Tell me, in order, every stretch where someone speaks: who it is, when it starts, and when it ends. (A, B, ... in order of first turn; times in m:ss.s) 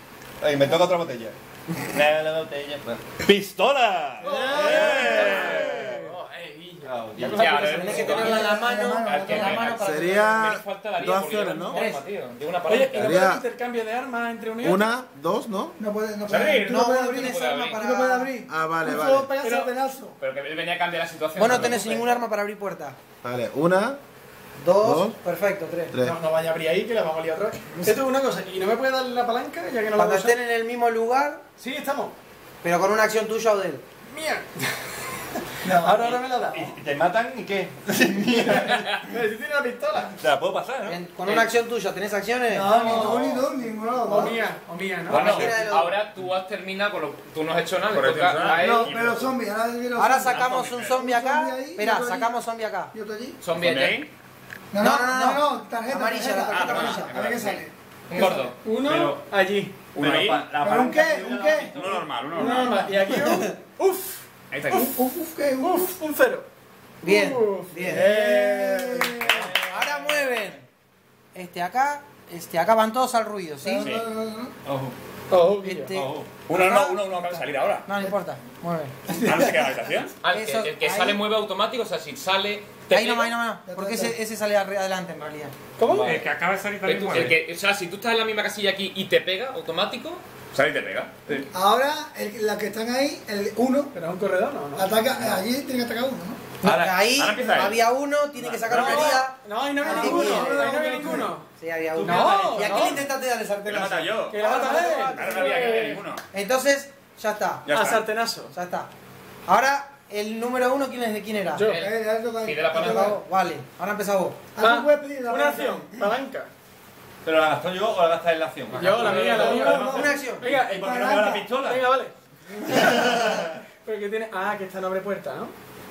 0:00.4-0:06.2 A
0:04.2-0:08.3 B
0:06.8-0:08.5 A
0:07.2-0:13.2 C
0:07.6-0:10.5 D
0:08.2-0:09.6 E
0:09.3-0:09.6 F
0:09.7-0:11.8 G
0:11.7-0:12.0 D
0:12.7-0:14.8 B
0:12.9-0:13.4 G
0:14.6-0:15.8 G
0:15.8-0:20.2 E
0:16.3-0:16.6 F
0:16.4-0:17.8 C
0:16.6-0:18.3 D
0:18.5-0:19.3 G
0:18.8-0:19.7 B
0:20.2-0:22.2 C
0:21.4-0:23.0 D
0:23.2-0:24.0 G
0:24.6-0:25.9 D
0:24.8-0:25.1 G
0:26.0-0:30.4 B
0:29.9-0:31.4 D
0:31.6-0:32.1 B
0:32.6-0:33.8 D
0:34.1-0:34.7 B
0:35.6-0:36.1 E
0:35.6-0:36.7 B
0:36.5-0:38.9 A
0:38.5-0:40.2 B
0:38.5-0:39.0 C
0:40.2-0:41.0 A
0:40.8-0:43.2 D
0:42.5-0:44.5 E
0:42.8-0:43.1 B
0:43.0-0:43.4 A
0:44.0-0:45.5 B
0:45.1-0:46.0 D
0:45.1-0:48.9 C
0:45.1-0:45.6 F
0:47.9-0:49.4 F
0:48.5-0:52.3 E
0:50.0-0:52.9 D
0:50.3-0:51.0 F
0:52.9-0:53.4 E
0:53.4-0:54.0 C
0:53.6-0:54.1 F
0:54.7-0:58.4 E
0:54.8-0:57.1 D
0:56.5-0:57.4 F
0:57.3-0:57.6 A
0:58.1-0:58.5 C
0:58.6-0:59.8 B
0:58.8-0:59.2 A
0:59.9-1:00.4 F
1:00.0-1:02.2 A
1:00.6-1:01.7 E
1:01.7-1:02.8 F
1:02.3-1:05.0 B
1:02.5-1:03.1 E
1:04.5-1:04.9 F
1:04.9-1:05.9 E
1:05.6-1:06.4 B
1:07.0-1:08.1 D
1:07.0-1:09.5 B
1:07.9-1:09.6 E
1:09.3-1:10.2 A
1:09.6-1:10.6 D
1:11.3-1:13.9 D
1:13.6-1:14.5 E
1:13.8-1:14.1 F
1:14.6-1:14.9 A
1:15.3-1:16.0 B
1:15.6-1:17.0 D
1:15.9-1:16.3 A
1:16.5-1:17.8 F
1:17.8-1:19.0 D
1:19.1-1:19.9 E
1:19.1-1:20.2 F
1:20.2-1:23.4 C
1:20.3-1:21.2 D
1:22.9-1:25.5 D
1:23.6-1:24.1 E
1:25.8-1:26.2 B
1:25.8-1:26.3 A
1:25.9-1:27.4 H
1:26.8-1:30.2 C
1:30.5-1:31.5 F
1:31.5-1:33.9 E
1:33.9-1:35.3 B
1:34.8-1:36.6 E
1:36.6-1:40.8 D
1:36.6-1:37.0 A
1:36.7-1:39.2 F
1:38.7-1:43.1 B
1:39.8-1:41.3 E
1:41.5-1:45.6 D
1:42.0-1:43.0 A
1:43.6-1:46.2 F
1:44.2-1:46.0 B
1:46.3-1:47.7 D
1:47.6-1:48.0 F
1:47.7-1:48.5 B
1:48.5-1:48.9 D
1:49.5-1:51.6 D
1:51.5-1:51.8 B
1:51.6-1:53.2 C
1:51.8-1:53.2 E
1:52.8-1:54.4 D
1:54.6-1:55.9 E
1:54.6-1:56.5 B
1:57.2-2:01.9 A
1:58.7-2:05.5 B
1:58.9-1:59.5 H
1:59.5-2:01.5 E
1:59.7-2:00.4 D
2:02.8-2:03.5 A